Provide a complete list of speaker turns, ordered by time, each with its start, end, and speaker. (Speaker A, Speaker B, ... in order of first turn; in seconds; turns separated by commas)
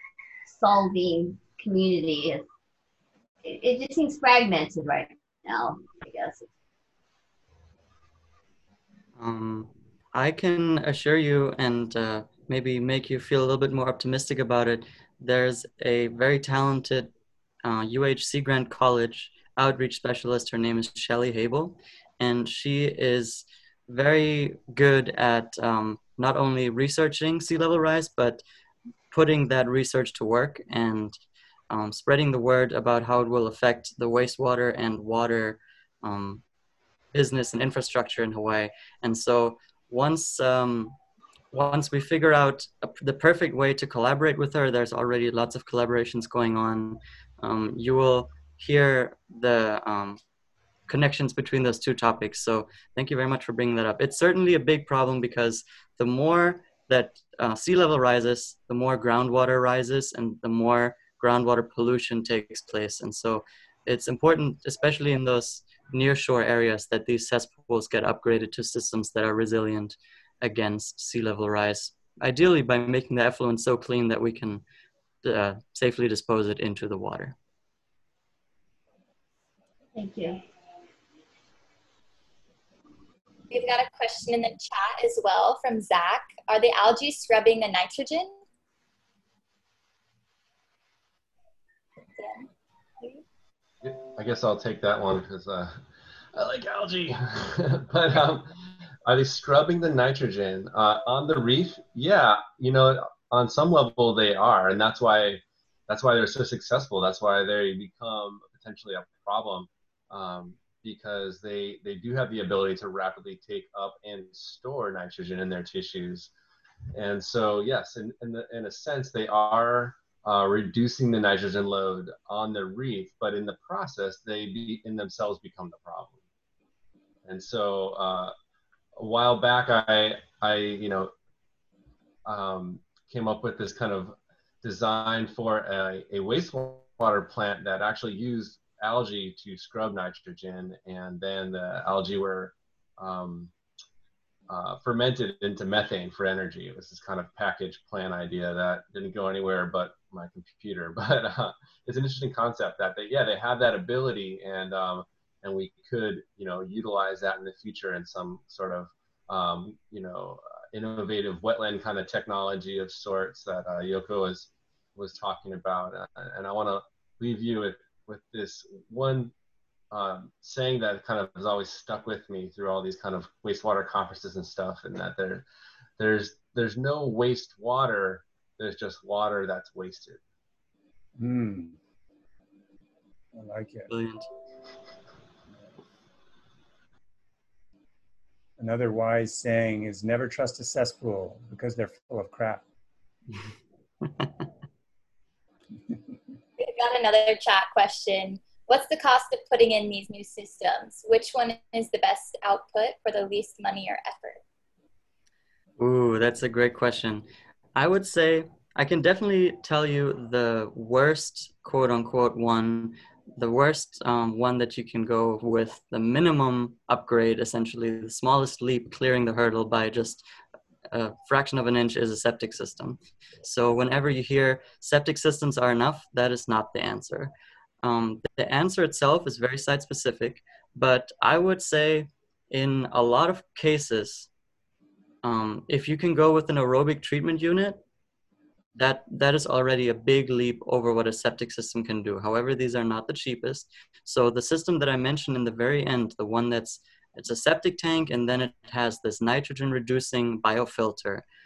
Speaker A: 0.5-2.5, Speaker A: 3.4-6.5, Speaker B: 9.2-17.1, Speaker B: 17.6-28.4, Speaker B: 29.1-31.2, Speaker B: 31.7-36.4, Speaker B: 37.1-41.0, Speaker B: 41.5-50.2, Speaker B: 50.9-74.6, Speaker B: 75.2-77.3, Speaker A: 80.0-80.4, Speaker C: 83.5-88.3, Speaker C: 92.2-92.5, Speaker D: 93.8-95.8, Speaker D: 96.3-98.5, Speaker D: 99.1-116.3, Speaker D: 116.9-126.2, Speaker D: 127.2-128.3, Speaker D: 129.0-131.1, Speaker D: 132.3-143.5, Speaker D: 144.5-169.3, Speaker D: 169.9-175.4, Speaker D: 176.0-180.2, Speaker E: 181.2-181.8, Speaker E: 183.3-183.9, Speaker B: 183.9-184.3, Speaker E: 188.6-192.6, Speaker C: 196.6-204.4, Speaker B: 205.8-220.3, Speaker B: 220.9-227.3, Speaker B: 227.8-234.3, Speaker B: 235.2-237.8, Speaker B: 238.8-251.2